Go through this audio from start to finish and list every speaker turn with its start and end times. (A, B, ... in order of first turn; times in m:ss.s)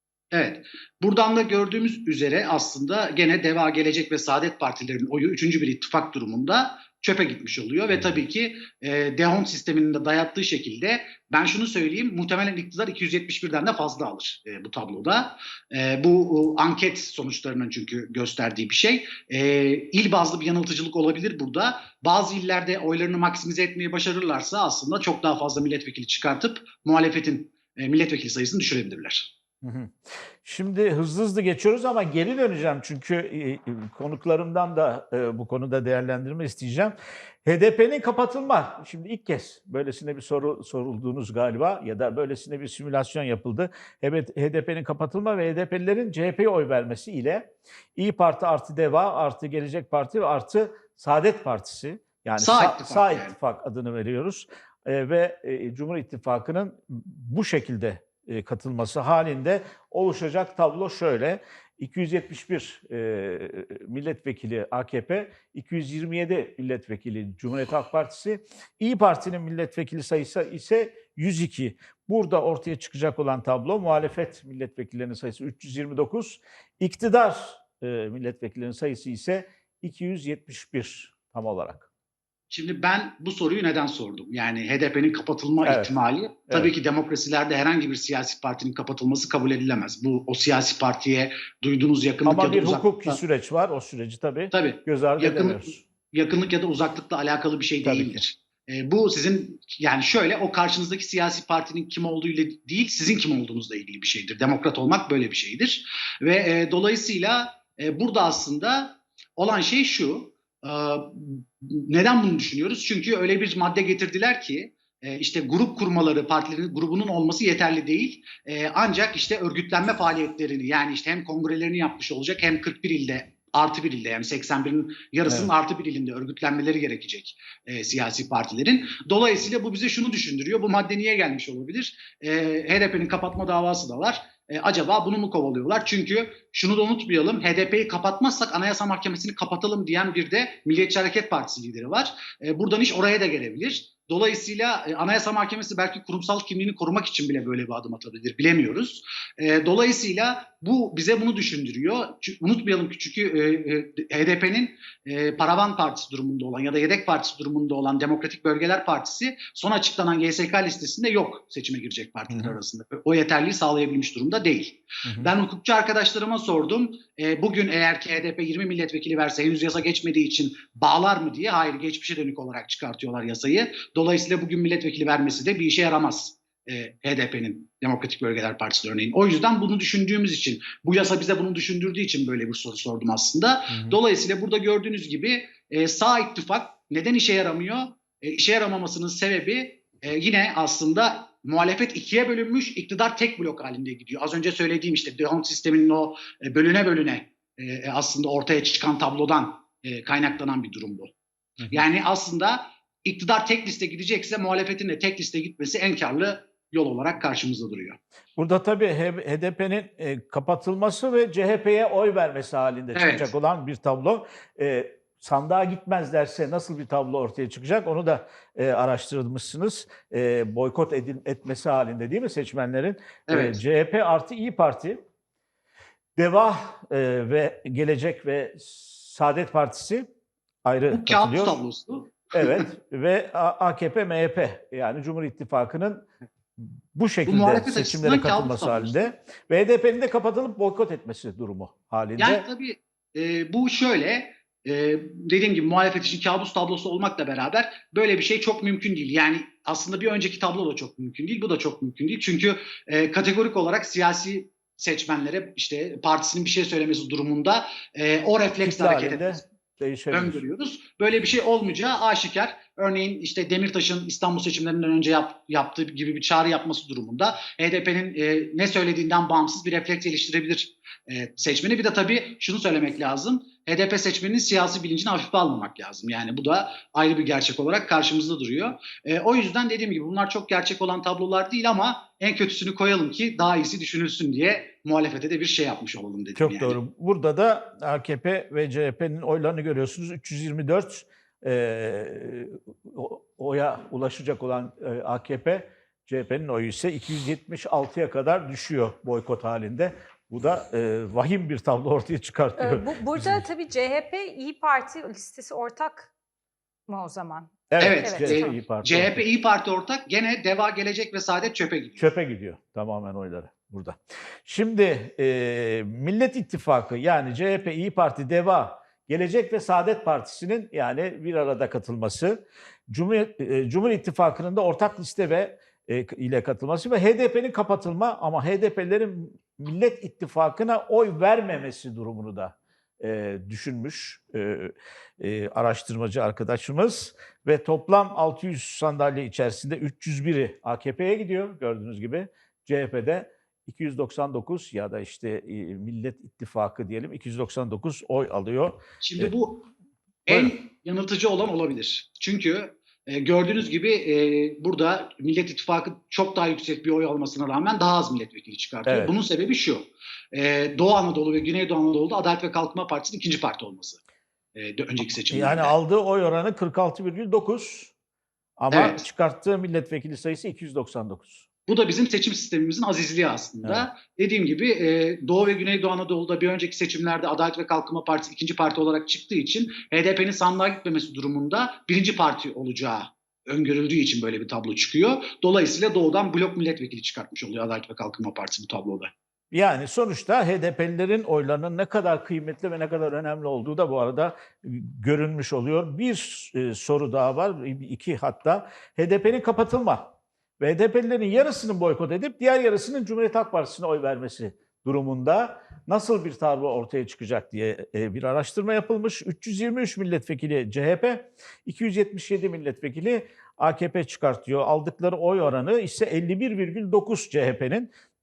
0:00.3-0:29.3 A
0:29.6-1:21.9 B
0:52.4-0:53.4 A
1:22.5-1:33.2 A
1:25.6-1:25.9 B
1:32.2-1:35.8 B
1:34.5-3:21.1 A
1:37.8-1:38.2 B
2:42.3-2:42.6 B
2:45.1-2:45.3 B
3:03.7-3:04.0 B
3:21.7-3:28.0 A
3:28.4-3:45.0 B
3:33.0-3:33.3 A
3:43.3-3:43.6 A
3:46.2-3:50.1 B
3:50.6-3:51.6 B
3:50.9-3:52.6 A
3:52.3-3:56.1 B
3:56.6-4:02.4 B
3:57.3-3:59.1 A
4:02.2-4:19.4 A
4:18.6-4:20.4 B
4:20.1-4:46.8 A
4:46.4-5:03.4 B
5:02.6-5:06.1 C
5:06.9-5:08.6 C
5:07.7-5:09.2 B
5:07.8-5:12.1 A
5:12.0-5:49.3 B
5:49.0-5:49.7 A
5:50.3-6:04.0 A
5:58.9-5:59.1 B
6:04.6-6:05.8 A
6:05.3-6:07.9 B
6:08.6-6:11.5 B
6:08.7-6:09.0 A
6:11.7-6:29.1 A
6:29.5-6:57.9 B